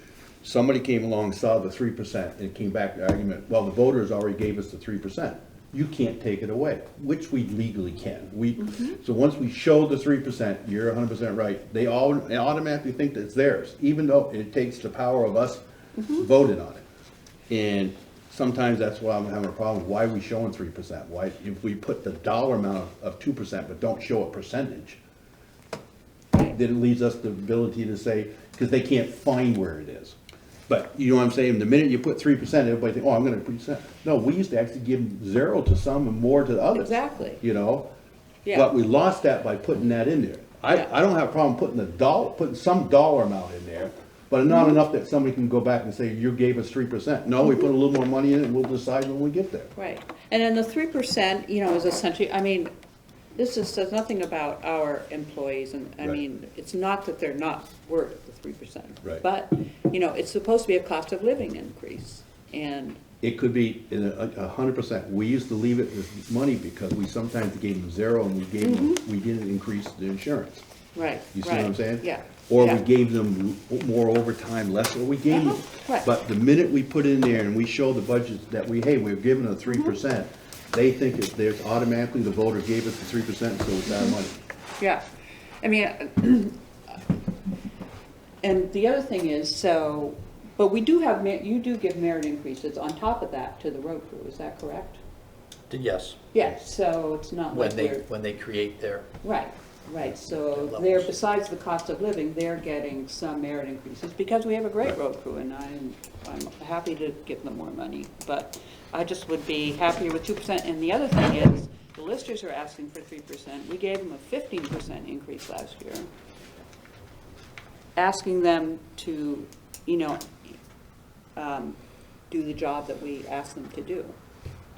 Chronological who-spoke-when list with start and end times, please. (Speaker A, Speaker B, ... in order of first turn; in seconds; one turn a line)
Speaker A: 0.4-16.9
Speaker B: 8.6-8.9
Speaker B: 16.0-16.2
Speaker A: 17.5-25.0
Speaker A: 26.4-30.2
Speaker A: 30.7-37.9
Speaker B: 36.7-37.4
Speaker B: 38.5-38.7
Speaker A: 38.5-49.7
Speaker B: 44.5-44.8
Speaker B: 49.8-52.7
Speaker B: 53.4-63.0
Speaker A: 63.2-70.6
Speaker B: 68.6-69.0
Speaker B: 70.9-72.8
Speaker A: 71.3-84.4
Speaker B: 75.3-76.0
Speaker B: 83.9-84.2
Speaker B: 84.8-85.0
Speaker B: 85.6-87.0
Speaker B: 88.4-95.0
Speaker C: 95.7-96.3
Speaker B: 96.3-98.0
Speaker C: 97.5-99.1
Speaker B: 99.2-116.1
Speaker C: 100.1-101.1
Speaker B: 118.0-120.5
Speaker B: 121.3-121.8
Speaker B: 122.3-124.1